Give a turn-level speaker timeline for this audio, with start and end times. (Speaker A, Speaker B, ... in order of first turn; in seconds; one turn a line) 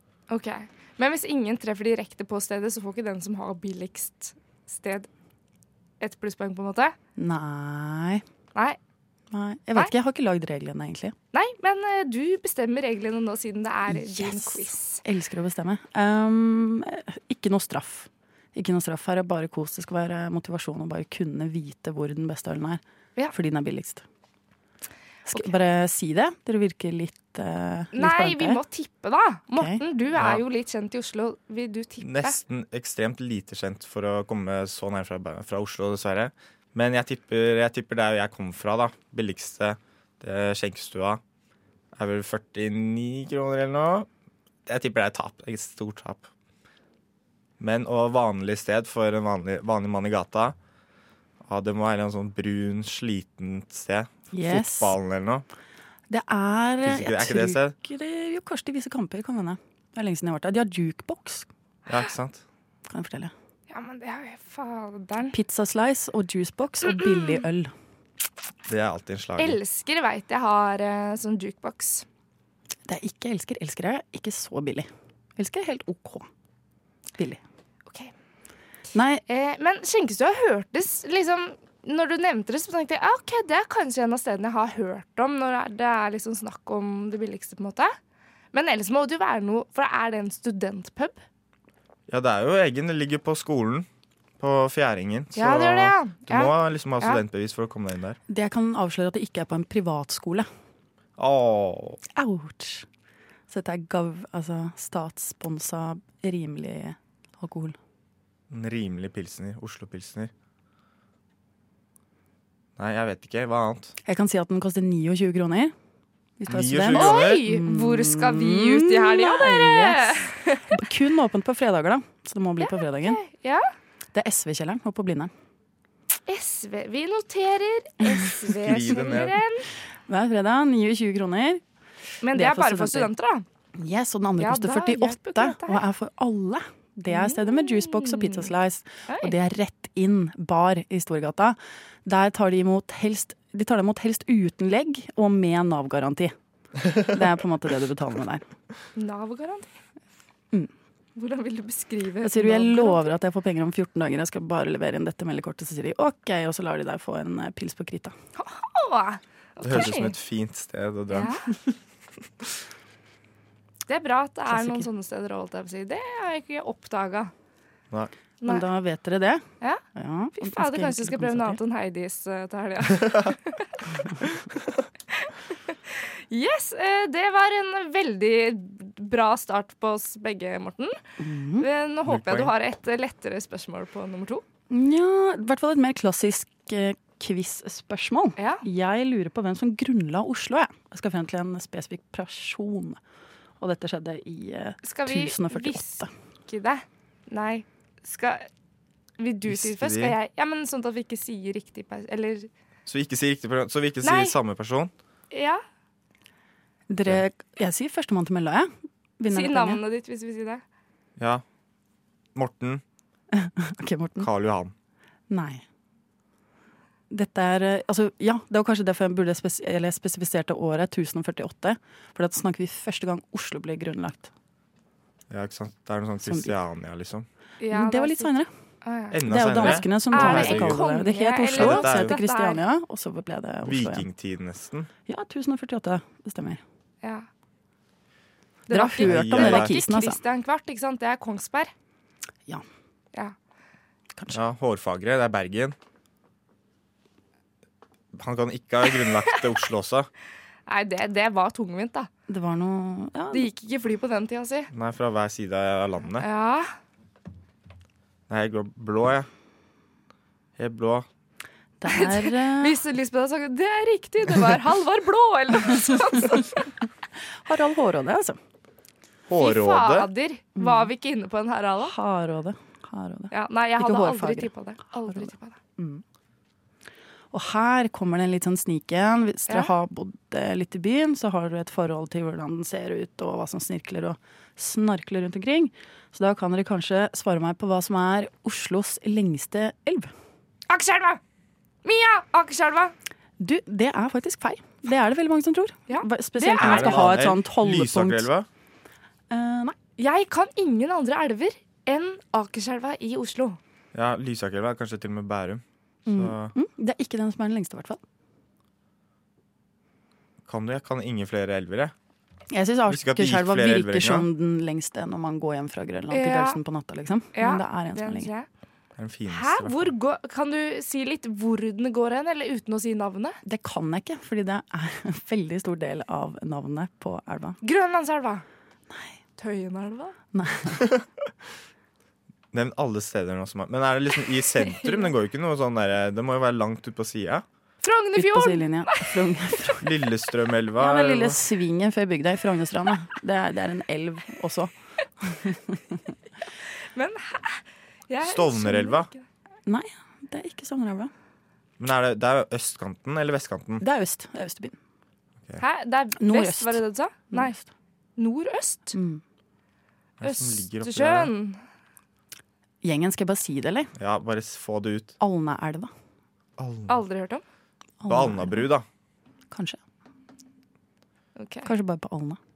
Speaker A: 0.3-5.1
Speaker A: 6.0-7.0
Speaker B: 7.2-8.2
Speaker B: 9.3-11.2
Speaker A: 11.3-15.0
Speaker B: 13.9-24.1
Speaker B: 25.3-28.6
Speaker A: 27.9-32.4
Speaker C: 30.1-30.4
Speaker C: 32.0-41.2
Speaker C: 42.0-44.1
Speaker C: 44.7-46.3
Speaker C: 47.6-50.5
Speaker C: 51.5-55.5
Speaker B: 54.3-55.0
Speaker B: 56.1-61.5
Speaker C: 56.8-57.8
Speaker C: 61.9-62.4
Speaker B: 62.9-63.3
Speaker A: 63.7-65.3
Speaker B: 65.3-67.7
Speaker A: 66.8-67.4
Speaker C: 68.7-69.6
Speaker A: 69.4-72.1
Speaker B: 72.9-76.3
Speaker A: 77.9-78.1
Speaker B: 78.9-79.2
Speaker A: 79.3-88.0
Speaker A: 88.5-91.2
Speaker C: 92.1-93.9
Speaker C: 94.4-98.2
Speaker A: 95.3-97.2
Speaker B: 98.3-100.5
Speaker C: 101.2-102.0
Speaker B: 102.2-102.9
Speaker B: 103.5-107.8
Speaker C: 108.5-110.3
Speaker C: 112.8-114.0
Speaker B: 114.0-115.7
Speaker B: 116.4-123.2
Speaker C: 116.5-117.4
Speaker A: 116.9-120.8
Speaker A: 122.6-123.7
Speaker B: 124.1-125.3
Speaker A: 126.3-129.7
Speaker C: 128.6-129.4
Speaker B: 130.1-131.6
Speaker A: 132.2-133.5
Speaker B: 132.3-133.1
Speaker B: 133.8-146.3
Speaker A: 134.4-135.8
Speaker A: 137.1-138.5
Speaker A: 139.1-139.3
Speaker B: 146.9-148.4
Speaker A: 149.0-149.8
Speaker A: 151.2-153.1
Speaker B: 152.2-158.2
Speaker A: 158.4-160.2
Speaker C: 159.6-161.7
Speaker A: 161.1-161.5
Speaker A: 163.9-167.3
Speaker B: 164.5-164.9
Speaker B: 168.5-171.6
Speaker A: 170.3-173.8
Speaker A: 175.1-181.0
Speaker B: 181.2-181.7
Speaker A: 181.6-184.4
Speaker C: 182.1-182.5
Speaker B: 184.7-193.0
Speaker A: 188.4-188.6
Speaker B: 193.6-196.1
Speaker A: 194.8-198.5
Speaker A: 199.2-202.5
Speaker C: 199.5-200.2
Speaker C: 202.9-204.9
Speaker A: 204.0-204.3
Speaker A: 205.3-205.6
Speaker B: 206.9-209.8
Speaker A: 209.3-210.6
Speaker C: 211.2-211.4
Speaker C: 212.3-212.8
Speaker B: 213.3-214.3
Speaker C: 214.2-214.7
Speaker B: 215.3-215.6
Speaker B: 217.1-224.3
Speaker C: 225.3-227.3
Speaker B: 226.2-226.6
Speaker A: 227.6-232.6
Speaker B: 227.7-228.5
Speaker C: 229.1-230.8
Speaker B: 229.2-234.1
Speaker C: 231.6-232.2
Speaker C: 233.7-234.9
Speaker B: 235.1-236.6
Speaker A: 238.7-241.7
Speaker B: 238.7-240.2
Speaker C: 239.0-239.7
Speaker B: 244.1-244.4
Speaker C: 244.3-245.8
Speaker C: 248.1-250.1
Speaker A: 248.9-249.4
Speaker A: 250.7-252.1
Speaker B: 252.3-253.5
Speaker A: 253.3-254.7
Speaker C: 254.7-256.3
Speaker A: 256.2-256.7
Speaker C: 258.3-259.3
Speaker C: 260.6-261.1
Speaker B: 261.8-262.8
Speaker A: 261.9-266.7
Speaker B: 267.3-268.4
Speaker C: 269.3-270.1
Speaker A: 269.4-271.9
Speaker B: 270.6-270.9
Speaker B: 271.8-274.5
Speaker A: 273.3-275.6
Speaker B: 275.1-276.0
Speaker B: 277.3-290.1
Speaker A: 290.7-291.2
Speaker A: 291.8-292.9
Speaker B: 293.4-298.3
Speaker A: 295.9-297.2
Speaker C: 296.6-298.5
Speaker B: 299.3-299.8
Speaker A: 300.0-303.6
Speaker C: 303.9-306.5
Speaker B: 306.1-308.0
Speaker C: 310.5-311.9
Speaker B: 312.5-318.3
Speaker C: 312.9-314.3
Speaker A: 316.1-316.6
Speaker A: 317.4-318.5
Speaker C: 319.0-319.9
Speaker A: 319.3-323.4
Speaker B: 323.4-327.6
Speaker A: 327.6-328.4
Speaker B: 328.9-329.1
Speaker A: 329.4-330.1
Speaker B: 330.3-330.9
Speaker C: 330.8-331.1
Speaker C: 332.5-337.4
Speaker A: 334.7-335.1
Speaker A: 337.8-339.7
Speaker B: 338.2-339.9
Speaker C: 339.8-341.4
Speaker B: 340.8-346.0
Speaker A: 346.9-349.2
Speaker C: 348.2-349.1
Speaker B: 349.7-351.1
Speaker C: 351.8-353.8
Speaker B: 353.8-354.8
Speaker A: 355.6-357.6
Speaker B: 356.2-357.7
Speaker A: 358.2-359.0
Speaker B: 358.9-359.2
Speaker C: 360.2-361.3
Speaker A: 360.2-361.6
Speaker B: 362.8-363.9
Speaker C: 364.0-365.2
Speaker B: 365.2-365.9
Speaker C: 366.6-367.0
Speaker A: 366.9-367.4
Speaker B: 368.0-368.7
Speaker C: 368.1-368.9
Speaker B: 369.5-369.8
Speaker A: 371.4-371.7
Speaker B: 371.7-372.4